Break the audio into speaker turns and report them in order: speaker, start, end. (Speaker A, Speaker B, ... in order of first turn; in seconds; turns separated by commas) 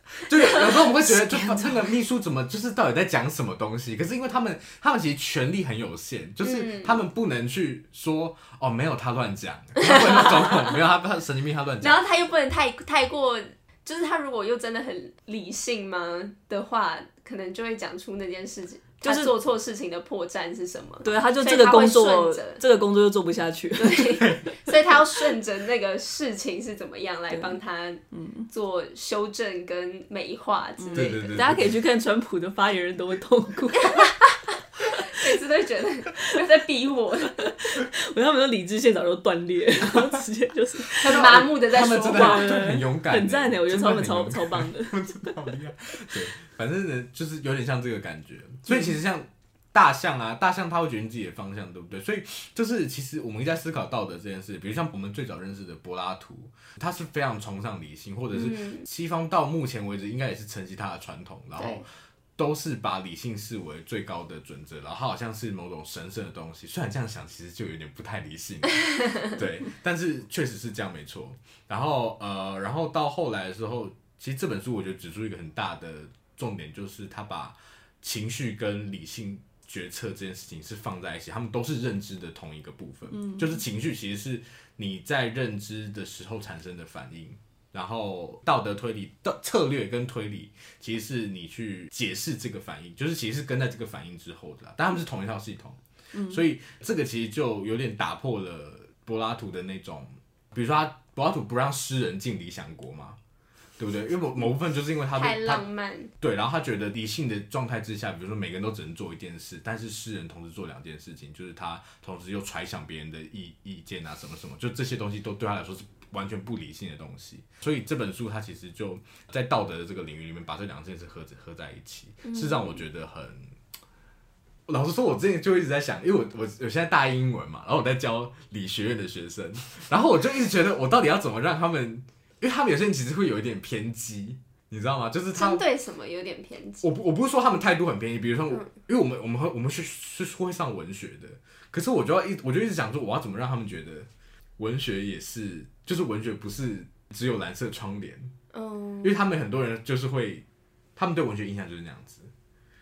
Speaker A: 0.2-12.0, Speaker B: 6.4-7.0, Speaker B: 9.8-10.7, Speaker B: 11.8-22.6, Speaker C: 19.0-19.3, Speaker C: 21.0-24.7, Speaker B: 23.8-31.5, Speaker C: 27.3-27.6, Speaker C: 28.1-28.5, Speaker C: 30.8-34.2, Speaker A: 30.9-31.8, Speaker B: 34.9-37.5, Speaker C: 37.6-45.5, Speaker A: 40.9-103.2, Speaker B: 41.0-42.6, Speaker B: 58.3-58.8, Speaker B: 61.5-61.8, Speaker C: 83.1-83.6, Speaker C: 96.1-96.4, Speaker A: 103.8-105.6, Speaker B: 105.1-106.1, Speaker A: 106.2-123.5, Speaker B: 122.2-122.8, Speaker A: 124.7-135.6, Speaker B: 135.3-136.8, Speaker A: 136.8-148.3, Speaker B: 148.5-149.2, Speaker A: 149.0-150.4, Speaker A: 150.9-152.3